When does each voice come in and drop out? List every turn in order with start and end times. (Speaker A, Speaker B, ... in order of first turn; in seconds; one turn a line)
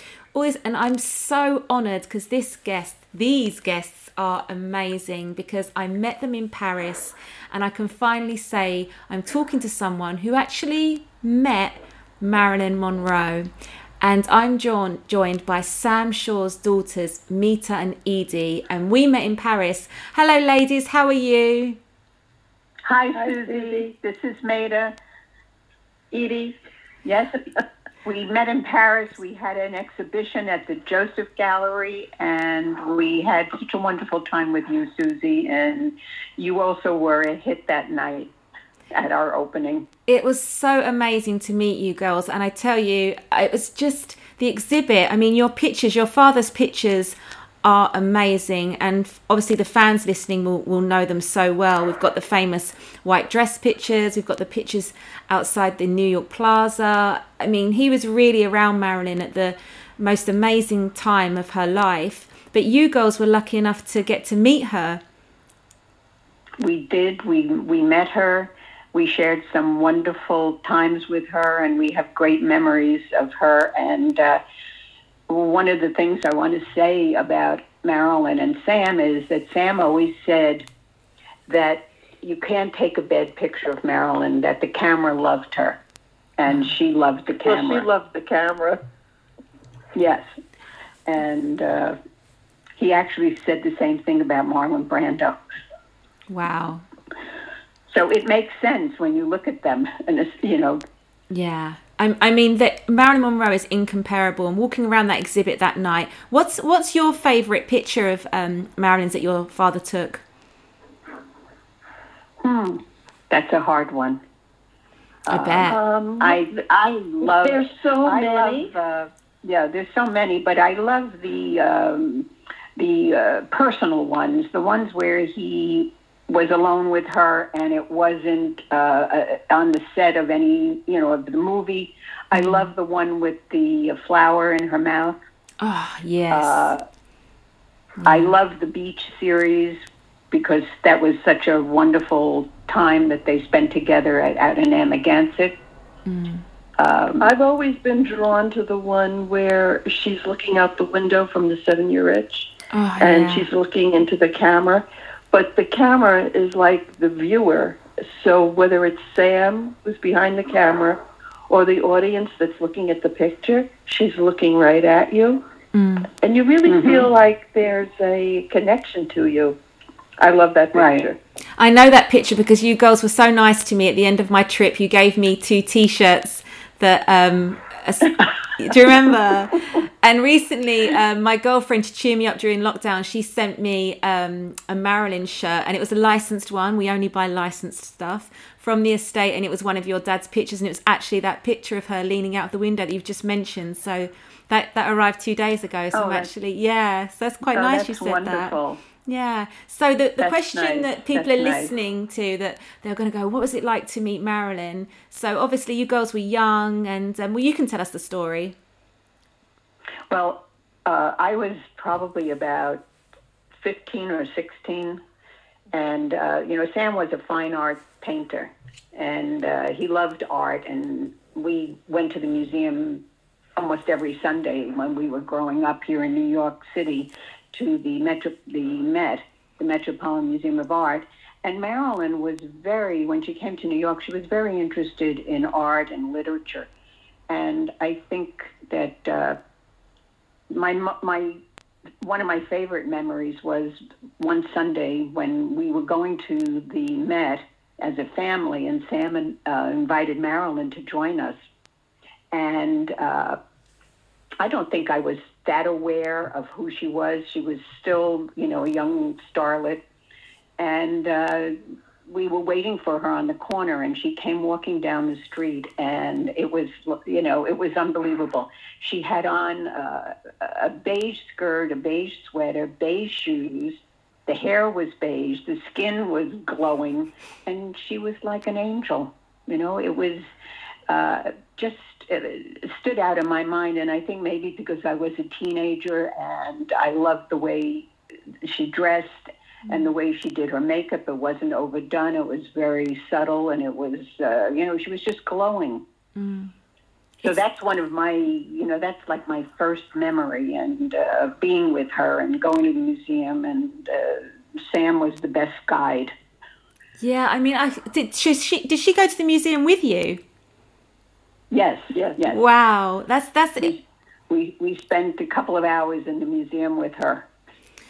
Speaker A: 0.3-13.5
Speaker A: 14.0-21.8
Speaker B: 22.9-24.9
Speaker C: 23.1-23.9
Speaker C: 26.1-26.5
Speaker B: 27.0-27.4
Speaker B: 28.0-38.3
Speaker B: 38.9-39.9
Speaker A: 40.1-65.0
Speaker B: 66.6-74.4
Speaker B: 75.3-80.6
Speaker B: 81.5-85.8
Speaker B: 86.4-87.8
Speaker C: 87.4-88.8
Speaker B: 89.9-90.2
Speaker B: 91.0-92.0
Speaker B: 92.8-95.3
Speaker A: 96.3-96.8
Speaker B: 97.9-100.8
Speaker A: 101.3-110.2
Speaker B: 112.4-114.2
Speaker B: 115.3-135.2
Speaker A: 115.3-115.8
Speaker C: 115.7-116.5
Speaker C: 117.2-118.7
Speaker A: 132.3-132.7
Speaker A: 135.6-136.7
Speaker B: 136.3-136.8
Speaker A: 138.0-138.3
Speaker B: 138.1-139.8
Speaker B: 140.3-145.6
Speaker A: 146.1-146.4
Speaker B: 146.8-147.3
Speaker C: 147.2-165.4
Speaker A: 152.7-153.5
Speaker A: 165.7-166.1
Speaker C: 166.2-169.6
Speaker B: 166.7-167.1
Speaker C: 170.2-171.2
Speaker B: 170.7-171.1
Speaker A: 171.6-208.6
Speaker B: 195.9-196.3
Speaker B: 197.5-198.8
Speaker B: 200.2-201.7
Speaker B: 210.1-212.8
Speaker B: 213.6-215.0
Speaker B: 215.7-223.0
Speaker B: 223.6-236.7
Speaker B: 237.3-239.4
Speaker B: 240.5-241.4
Speaker B: 242.0-251.3
Speaker B: 252.3-253.4
Speaker B: 254.4-259.8
Speaker B: 260.6-261.5
Speaker B: 262.1-280.2
Speaker B: 280.9-287.9
Speaker B: 288.4-295.8
Speaker A: 296.1-296.5
Speaker B: 297.2-306.1
Speaker A: 307.0-310.2
Speaker B: 311.5-312.4
Speaker C: 311.9-312.2
Speaker A: 312.3-313.7
Speaker B: 313.6-317.2